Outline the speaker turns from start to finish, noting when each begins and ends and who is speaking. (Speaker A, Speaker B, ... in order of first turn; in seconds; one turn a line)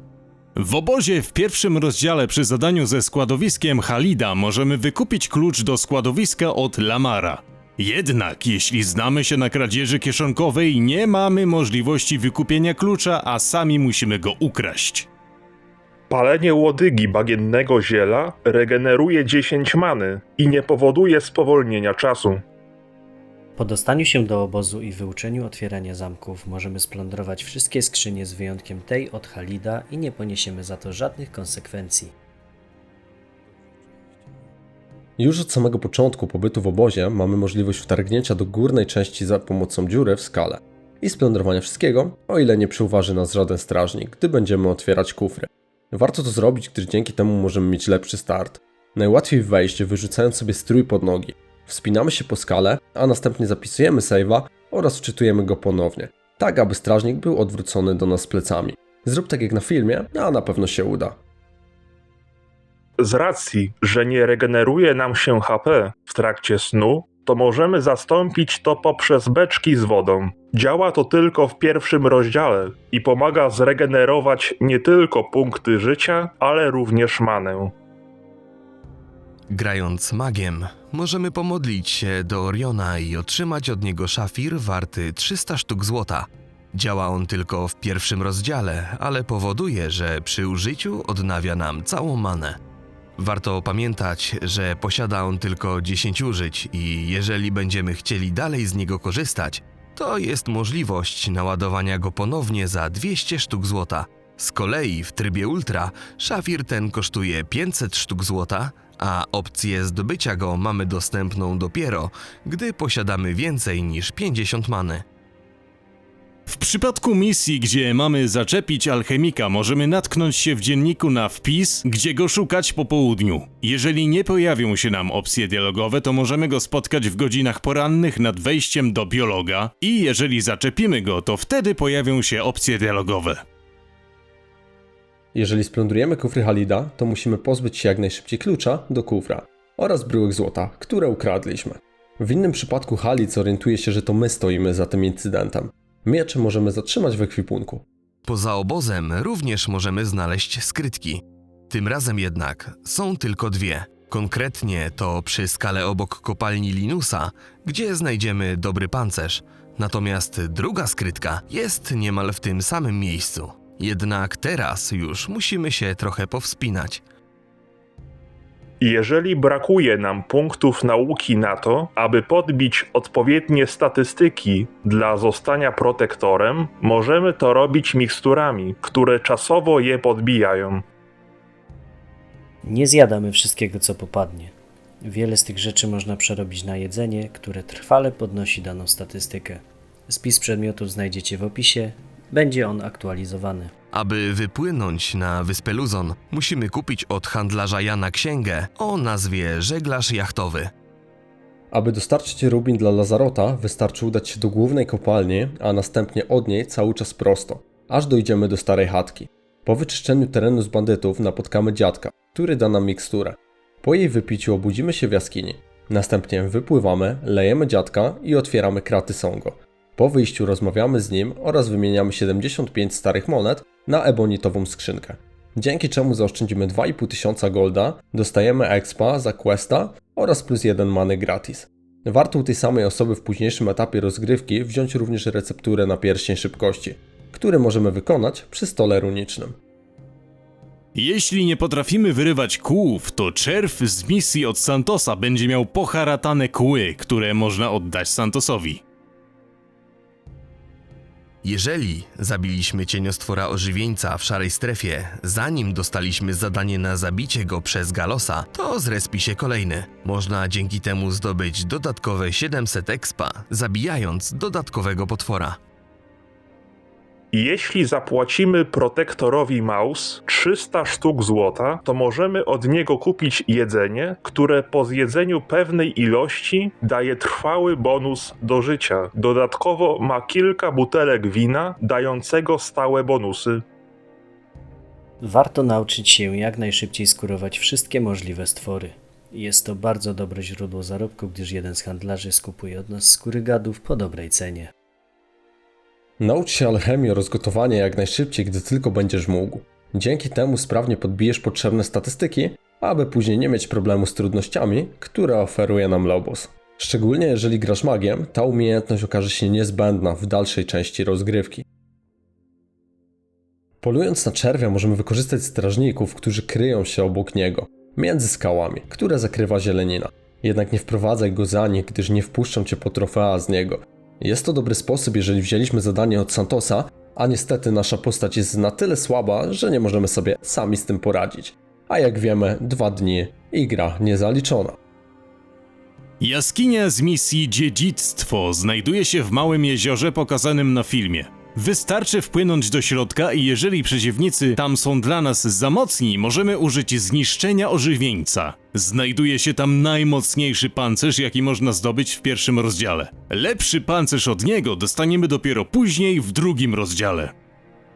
Speaker A: 0.6-15.1
Speaker B: 16.1-22.4
Speaker C: 23.6-32.1
Speaker D: 35.2-61.2
Speaker B: 63.0-77.7
Speaker E: 79.5-92.6
Speaker E: 93.2-115.0
Speaker A: 116.5-133.4
Speaker D: 135.3-147.8
Speaker E: 148.3-167.0
Speaker B: 168.8-180.8
Speaker C: 182.6-193.7
Speaker E: 193.9-200.7
Speaker D: 201.7-239.6
Speaker A: 240.9-248.8
Speaker E: 251.4-265.6
Speaker B: 267.3-283.6
Speaker C: 285.2-294.7
Speaker D: 296.2-311.6
Speaker D: 313.8-334.8
Speaker A: 336.2-357.3